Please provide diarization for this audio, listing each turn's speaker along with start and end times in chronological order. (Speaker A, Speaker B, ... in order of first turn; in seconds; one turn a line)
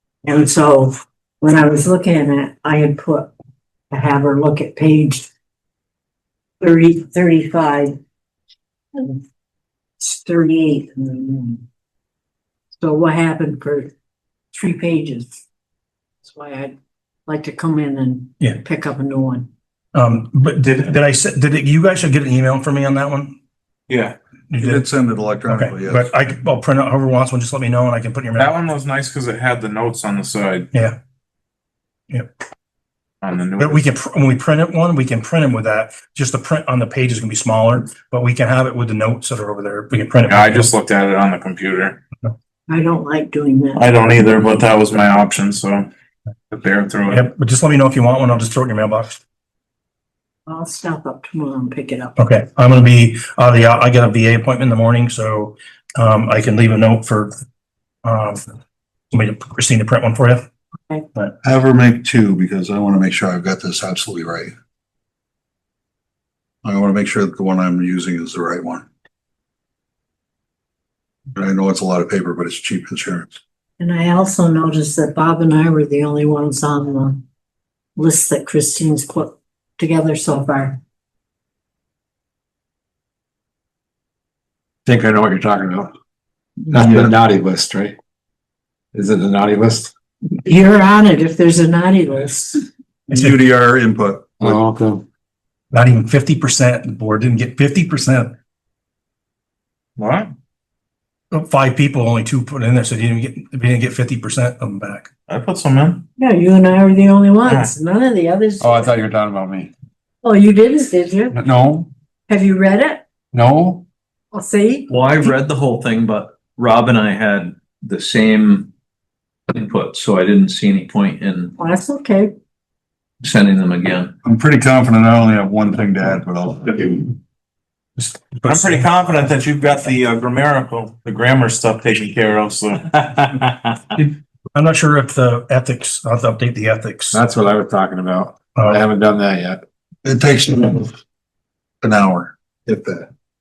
Speaker A: 0.2-3.3
Speaker A: 3.9-5.3
Speaker A: 6.6-8.0
Speaker A: 8.9-9.2
Speaker A: 10.0-11.6
Speaker A: 12.8-13.9
Speaker A: 14.5-15.4
Speaker A: 16.2-16.8
Speaker A: 17.3-19.5
Speaker B: 19.9-23.4
Speaker C: 23.9-24.1
Speaker B: 24.5-24.8
Speaker D: 24.6-26.1
Speaker B: 25.5-28.6
Speaker C: 28.4-30.7
Speaker B: 30.7-31.0
Speaker C: 33.2-33.8
Speaker B: 33.6-40.7
Speaker C: 40.3-42.0
Speaker A: 42.7-43.9
Speaker C: 43.8-45.9
Speaker C: 46.5-47.2
Speaker B: 47.1-49.2
Speaker A: 50.5-52.2
Speaker B: 52.2-57.3
Speaker B: 58.0-58.4
Speaker B: 59.1-60.5
Speaker D: 61.4-64.5
Speaker D: 66.6-68.9
Speaker D: 71.3-73.4
Speaker A: 73.8-77.2
Speaker A: 78.0-80.8
Speaker E: 84.8-85.9
Speaker D: 86.7-87.1
Speaker E: 86.7-88.0
Speaker E: 88.9-89.9
Speaker A: 90.3-92.7
Speaker D: 93.1-94.6
Speaker E: 94.4-95.0
Speaker B: 95.7-98.3
Speaker C: 100.0-100.3
Speaker B: 101.3-105.1
Speaker C: 105.3-106.0
Speaker A: 106.2-108.9
Speaker C: 107.5-107.7
Speaker E: 108.6-109.7
Speaker A: 110.2-111.4
Speaker E: 111.3-111.9
Speaker A: 112.3-113.0
Speaker E: 113.3-113.8
Speaker A: 114.3-114.9
Speaker F: 114.9-118.7
Speaker F: 119.5-121.5
Speaker A: 121.6-122.3
Speaker F: 123.2-124.1
Speaker D: 124.2-127.1
Speaker B: 128.0-128.9
Speaker C: 128.4-133.7
Speaker B: 134.5-137.2
Speaker E: 137.1-139.6
Speaker D: 140.0-140.9
Speaker D: 141.8-143.1